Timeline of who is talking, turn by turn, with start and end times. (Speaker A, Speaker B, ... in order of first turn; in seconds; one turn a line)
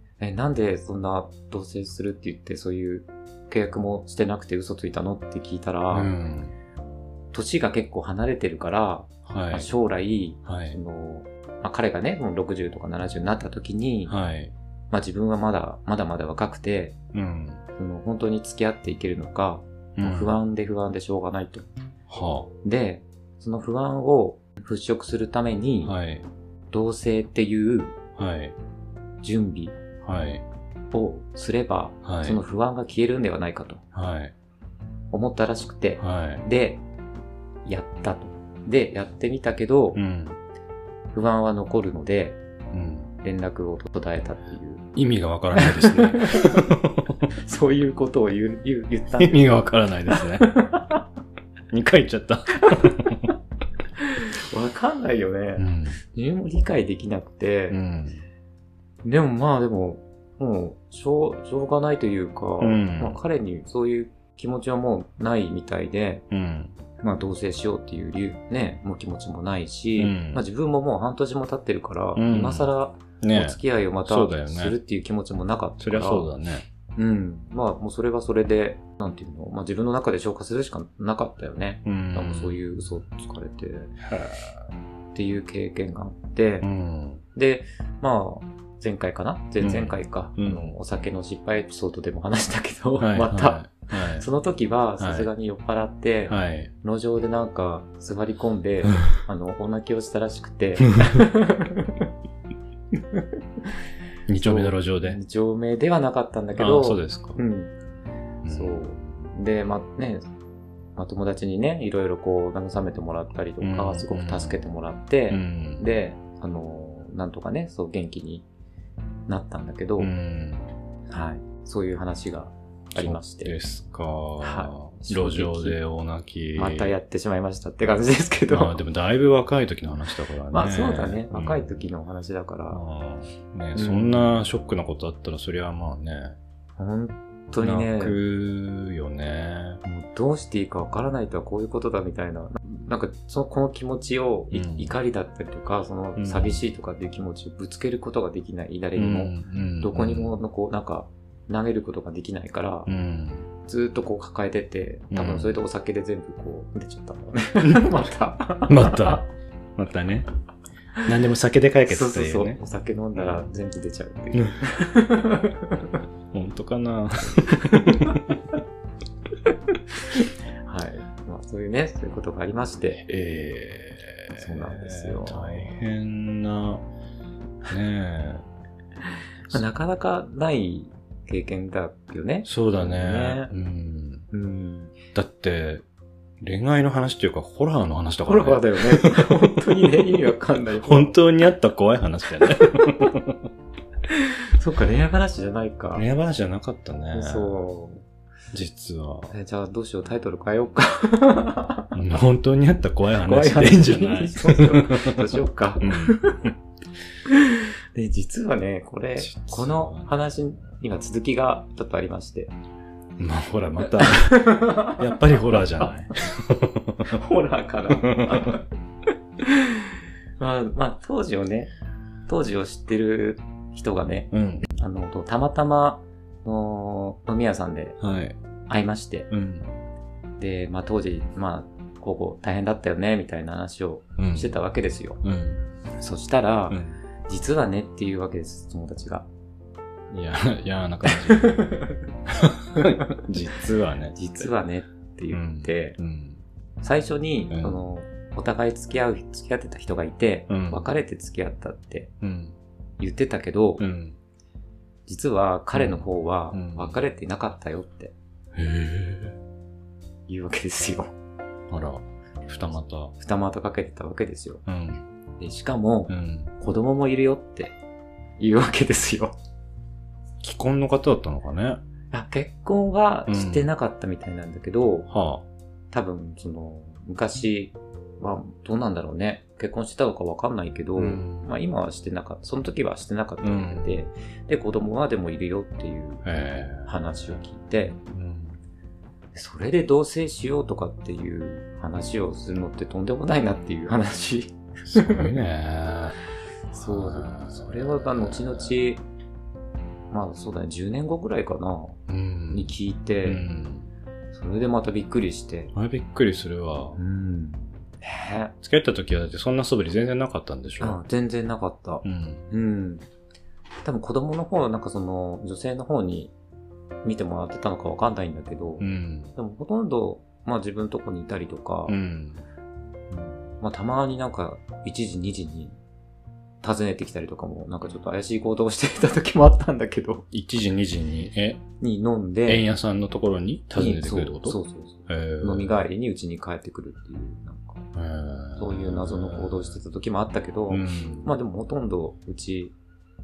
Speaker A: 0.2-6.1
Speaker B: 5.9-6.5
Speaker A: 7.3-14.2
Speaker B: 9.3-9.7
Speaker B: 10.4-10.8
Speaker B: 14.1-14.5
Speaker A: 14.9-17.0
Speaker B: 17.1-17.6
Speaker A: 17.8-21.7
Speaker B: 20.0-20.4
Speaker B: 22.1-22.5
Speaker A: 22.6-26.0
Speaker B: 25.8-26.3
Speaker A: 26.7-28.0
Speaker B: 28.2-28.6
Speaker A: 29.2-29.8
Speaker B: 30.0-30.4
Speaker A: 30.9-33.8
Speaker B: 32.0-32.4
Speaker B: 33.9-34.3
Speaker A: 35.1-36.8
Speaker B: 36.0-36.4
Speaker A: 37.6-40.0
Speaker B: 40.0-40.4
Speaker A: 41.1-42.4
Speaker B: 42.7-43.1
Speaker A: 43.2-44.9
Speaker B: 45.0-47.2
Speaker A: 45.5-46.5
Speaker A: 47.4-49.5
Speaker B: 49.2-50.5
Speaker A: 50.1-51.0
Speaker B: 51.7-53.3
Speaker A: 54.0-57.8
Speaker B: 55.6-56.0
Speaker B: 57.7-58.2
Speaker A: 59.0-66.2
Speaker B: 62.6-63.2
Speaker B: 66.3-66.8
Speaker A: 67.0-76.3
Speaker B: 70.0-70.4
Speaker B: 72.2-72.7
Speaker B: 73.2-74.8
Speaker B: 75.8-76.7
Speaker A: 77.0-84.0
Speaker B: 81.9-82.6
Speaker B: 84.0-84.7
Speaker A: 85.1-86.7
Speaker B: 86.6-87.2
Speaker A: 87.3-102.1
Speaker B: 89.6-90.8
Speaker B: 93.0-94.3
Speaker B: 95.0-95.3
Speaker B: 96.3-96.7
Speaker B: 104.3-105.2
Speaker A: 104.4-107.7
Speaker B: 106.6-107.4
Speaker B: 108.5-109.3
Speaker A: 108.5-110.2
Speaker A: 111.0-118.5
Speaker B: 113.6-114.6
Speaker B: 115.3-115.9
Speaker A: 119.3-120.1
Speaker B: 120.0-120.7
Speaker A: 121.1-123.5
Speaker B: 123.0-126.9
Speaker A: 124.4-125.8
Speaker A: 126.6-128.8
Speaker B: 128.5-131.8
Speaker A: 130.5-132.8
Speaker B: 132.7-136.4
Speaker A: 133.8-134.3
Speaker A: 136.8-138.2
Speaker B: 137.6-139.8
Speaker A: 139.8-152.9
Speaker B: 144.5-144.9
Speaker B: 146.2-146.6
Speaker B: 149.0-150.4
Speaker B: 152.9-153.5
Speaker A: 153.6-159.2
Speaker B: 155.1-155.6
Speaker B: 157.7-157.9
Speaker B: 158.7-160.3
Speaker B: 161.1-162.6
Speaker A: 161.9-166.0
Speaker B: 163.2-163.5
Speaker B: 166.3-168.3
Speaker A: 167.5-168.2
Speaker A: 170.2-173.0
Speaker B: 173.1-176.8
Speaker A: 174.3-175.7
Speaker B: 177.7-178.5
Speaker A: 179.5-183.5
Speaker B: 182.5-184.3
Speaker A: 184.3-184.9
Speaker B: 185.1-185.8
Speaker B: 186.4-190.2
Speaker A: 188.3-191.2
Speaker B: 190.8-193.4
Speaker A: 194.1-196.1
Speaker B: 195.9-197.6
Speaker A: 197.1-198.0
Speaker B: 198.5-199.3
Speaker A: 199.3-201.9
Speaker B: 201.9-205.3
Speaker A: 203.2-206.5
Speaker B: 205.8-206.5
Speaker A: 207.3-212.5
Speaker B: 209.2-210.1
Speaker B: 213.2-217.2
Speaker A: 213.9-216.2
Speaker A: 217.1-218.6
Speaker B: 218.0-218.6
Speaker A: 219.4-219.8
Speaker A: 220.4-221.7
Speaker A: 222.3-228.0
Speaker B: 224.3-224.8
Speaker B: 228.0-228.4
Speaker A: 228.7-229.3
Speaker B: 229.3-229.7
Speaker A: 230.4-235.2
Speaker B: 234.2-234.5
Speaker B: 235.2-235.6
Speaker A: 236.0-239.3
Speaker B: 236.7-237.0
Speaker B: 240.1-244.5
Speaker A: 241.1-242.0
Speaker A: 242.8-243.2
Speaker A: 244.1-246.0
Speaker B: 245.3-246.4
Speaker A: 246.8-252.1
Speaker B: 247.5-247.8
Speaker B: 250.5-250.9
Speaker B: 252.2-252.6
Speaker A: 253.0-253.8
Speaker B: 253.8-254.2
Speaker A: 255.1-258.1
Speaker B: 255.7-257.0
Speaker B: 258.6-259.4
Speaker A: 260.3-261.1
Speaker B: 261.7-263.1
Speaker A: 263.2-264.6
Speaker B: 264.7-265.0
Speaker A: 265.4-267.8
Speaker B: 266.1-266.5
Speaker A: 268.4-269.3
Speaker B: 270.4-271.8
Speaker A: 272.1-275.1
Speaker B: 273.3-273.7
Speaker B: 275.1-275.4
Speaker A: 275.9-288.0
Speaker B: 281.0-281.5
Speaker B: 283.4-284.0
Speaker B: 286.2-287.2
Speaker B: 288.1-288.6
Speaker A: 289.4-295.3
Speaker B: 294.9-296.2
Speaker A: 296.7-299.0
Speaker B: 296.7-298.8
Speaker A: 300.1-303.5
Speaker B: 302.1-303.9
Speaker A: 304.3-305.7
Speaker B: 305.7-307.0
Speaker A: 306.9-308.5
Speaker B: 308.6-311.0
Speaker A: 310.8-313.0
Speaker B: 312.0-312.5
Speaker A: 313.8-316.3
Speaker A: 317.0-322.0
Speaker B: 318.8-319.3
Speaker B: 321.9-322.4
Speaker A: 323.1-325.8
Speaker A: 326.6-330.3
Speaker B: 330.3-331.6
Speaker A: 331.8-332.7
Speaker B: 332.5-335.8
Speaker A: 333.8-337.8
Speaker B: 337.9-339.8
Speaker A: 338.6-342.8
Speaker B: 340.7-341.3